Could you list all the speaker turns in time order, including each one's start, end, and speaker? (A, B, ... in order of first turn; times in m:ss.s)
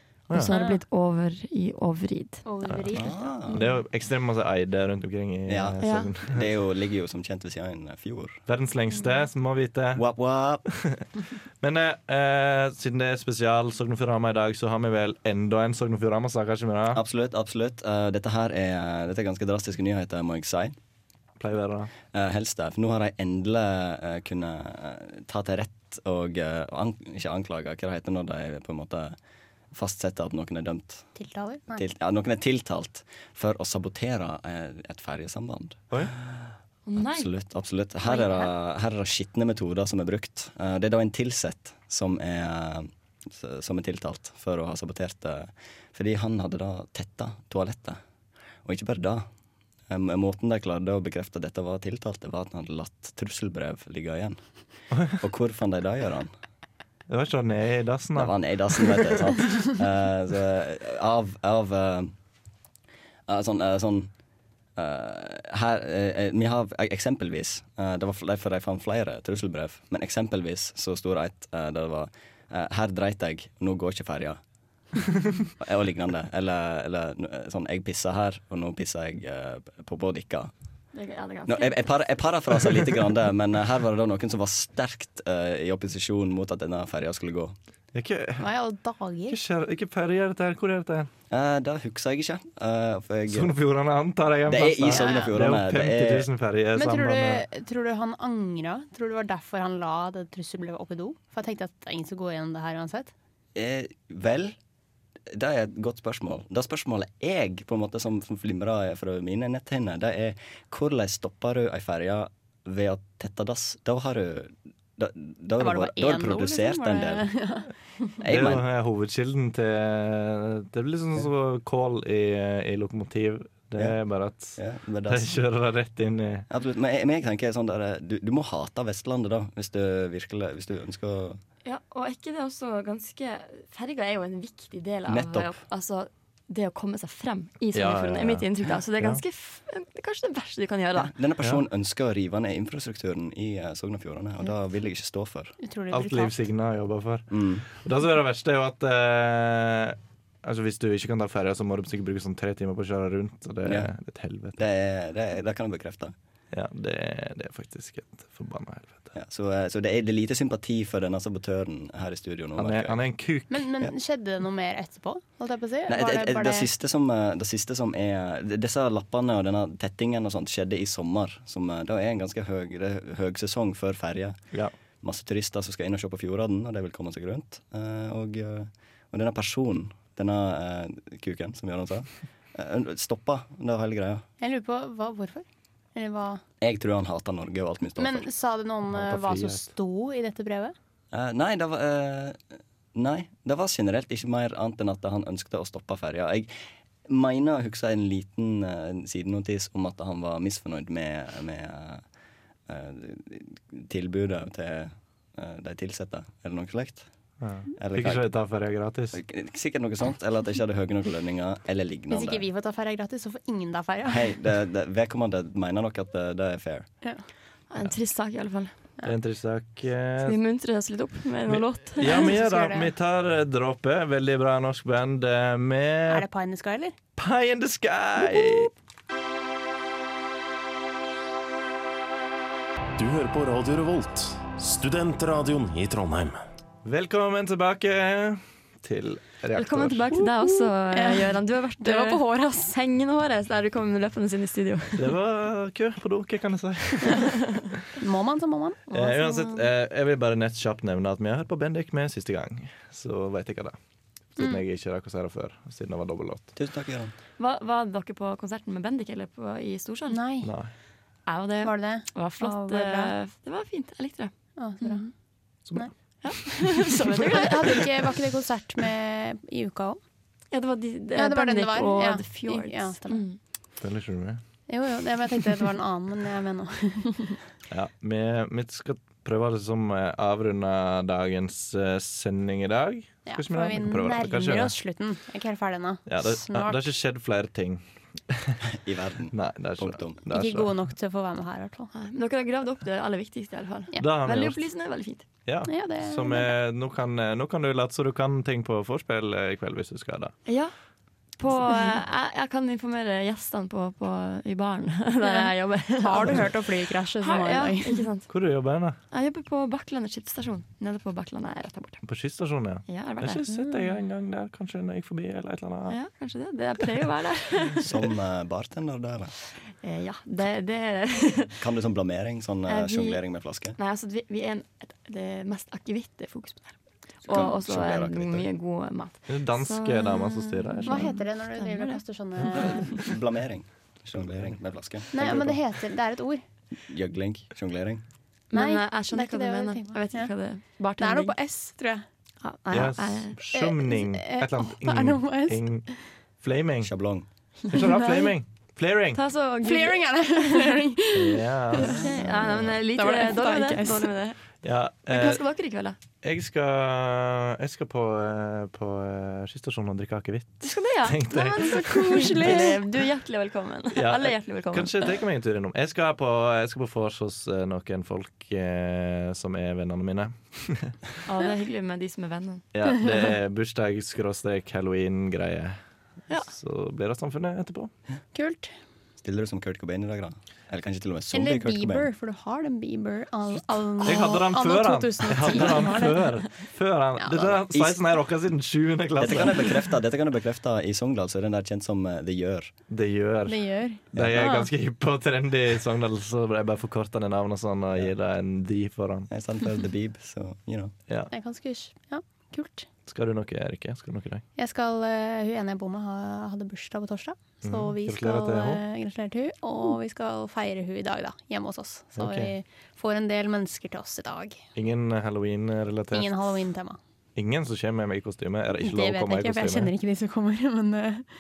0:00.3-0:00.5 A
0:00.3-0:02.4 B
0:00.5-0:00.8 C
0:02.4-0:03.7 C
0:02.6-0:02.9 A
0:02.9-0:03.6 D
0:03.5-0:06.5 A
0:05.5-0:08.4 D
0:05.8-0:06.1 B
0:08.5-0:10.0 A
0:10.0-0:10.6 D
0:10.7-0:11.1 A
0:11.6-0:17.0 A
0:16.9-0:20.7 D
0:21.4-0:21.9 A
0:22.1-0:29.2 D
0:29.7-0:31.1 D
0:31.2-0:31.8 C
0:31.7-0:48.0 D
0:36.9-0:37.3 B
0:38.0-0:38.5 B
0:48.6-0:49.3 D
0:49.9-0:54.4 D
0:55.1-0:56.3 D
0:57.1-0:59.4 A
0:58.2-1:02.1 D
1:03.3-1:04.1 D
1:04.8-1:14.4 D
1:15.6-1:20.5 D
1:20.9-1:21.9 B
1:21.5-1:27.5 D
1:27.9-1:28.5 A
1:28.4-1:29.4 C
1:29.3-1:31.1 A
1:31.3-1:33.5 D
1:33.3-1:37.4 A
1:34.5-1:36.3 D
1:34.9-1:35.3 C
1:36.8-1:43.1 C
1:43.6-1:44.6 D
1:45.3-1:57.3 D
1:55.6-1:57.7 C
1:58.2-1:58.6 D
1:58.2-2:06.5 A
2:04.6-2:05.3 D
2:06.5-2:11.4 D
2:11.6-2:21.1 B
2:15.1-2:15.5 D
2:17.7-2:18.5 A
2:21.0-2:25.6 D
2:25.6-2:26.4 C
2:25.9-2:34.6 A
2:27.3-2:27.7 D
2:34.6-2:36.1 D
2:36.5-2:39.1 A
2:39.1-2:43.0 D
2:42.6-2:43.7 A
2:43.5-2:46.7 C
2:45.9-2:54.4 D
2:55.0-3:04.2 D
3:04.4-3:06.4 C
3:06.6-3:08.3 D
3:08.0-3:10.8 C
3:08.9-3:09.7 A
3:11.1-3:16.5 D
3:17.1-3:22.0 D
3:22.7-3:27.1 D
3:27.4-3:29.2 A
3:27.8-3:28.4 D
3:29.1-3:32.4 D
3:32.1-3:34.3 C
3:34.1-3:36.9 D
3:37.7-3:38.8 B
3:39.0-3:40.4 A
3:40.2-3:42.4 B
3:41.5-3:46.3 A
3:42.0-3:42.9 C
3:46.1-3:46.9 C
3:47.2-3:48.7 A
3:53.0-3:56.4 E
3:56.8-4:00.1 A
3:59.5-4:05.1 B
4:00.4-4:02.8 C
4:05.0-4:07.6 A
4:08.0-4:08.9 C
4:08.9-4:09.6 B
4:08.9-4:13.8 A
4:14.4-4:16.5 A
4:16.6-4:17.1 D
4:17.4-4:20.2 B
4:20.1-4:20.5 C
4:20.4-4:20.7 A
4:21.3-4:25.1 B
4:21.6-4:23.1 C
4:24.6-4:25.1 C
4:26.2-4:27.8 B
4:27.2-4:30.0 C
4:30.5-4:33.4 B
4:31.2-4:33.3 C
4:33.8-4:34.4 A
4:34.7-4:37.4 C
4:37.7-4:44.8 A
4:43.3-4:46.9 C
4:46.1-4:48.6 A
4:48.7-4:50.2 D
4:49.3-4:50.7 A
4:50.3-4:51.9 C
4:51.9-4:55.2 B
4:54.0-4:54.6 A
4:55.5-5:00.3 A
4:55.7-4:56.5 C
5:00.5-5:00.7 B
5:01.4-5:08.3 B
5:05.2-5:08.1 C
5:08.3-5:09.0 A
5:09.1-5:12.0 B
5:12.0-5:16.0 A
5:12.9-5:13.4 B
5:13.5-5:13.9 C
5:15.9-5:18.0 B
5:17.8-5:19.3 D
5:19.8-5:21.6 B
5:21.6-5:23.8 D
5:22.7-5:23.2 B
5:23.8-5:33.0 B
5:27.3-5:28.5 D
5:29.3-5:31.2 A
5:30.9-5:33.1 C
5:32.6-5:35.6 D
5:35.1-5:36.4 C
5:36.8-5:38.0 D
5:38.5-5:40.3 C
5:38.5-5:41.4 B
5:41.0-5:42.0 C
5:42.4-5:43.4 B
5:42.7-5:45.9 A
5:43.5-5:45.9 C
5:46.4-5:46.9 A
5:46.8-5:47.3 D
5:47.7-5:49.2 A
5:47.8-5:48.3 B
5:49.1-5:50.7 B
5:49.6-5:54.1 C
5:51.1-5:52.6 A
5:51.8-5:54.4 B
5:54.6-5:55.4 A
5:55.1-5:56.0 B
5:56.2-6:02.8 A
6:00.6-6:05.2 B
6:01.3-6:02.8 C
6:03.9-6:11.0 A
6:11.2-6:12.6 B
6:12.7-6:15.8 A
6:16.3-6:17.9 A
6:18.3-6:18.7 C
6:19.2-6:22.1 D
6:21.3-6:26.4 C
6:24.0-6:29.8 A
6:27.2-6:27.6 C
6:29.2-6:32.7 D
6:32.9-6:39.3 A
6:33.5-6:34.7 C
6:39.3-6:40.9 D
6:41.3-6:42.9 C
6:43.1-6:44.4 A
6:44.6-6:54.6 C
6:47.6-6:48.8 A
6:52.2-6:52.5 A
6:54.8-6:56.5 A
6:56.1-6:57.0 C
6:57.4-6:59.9 A
6:58.8-7:01.3 C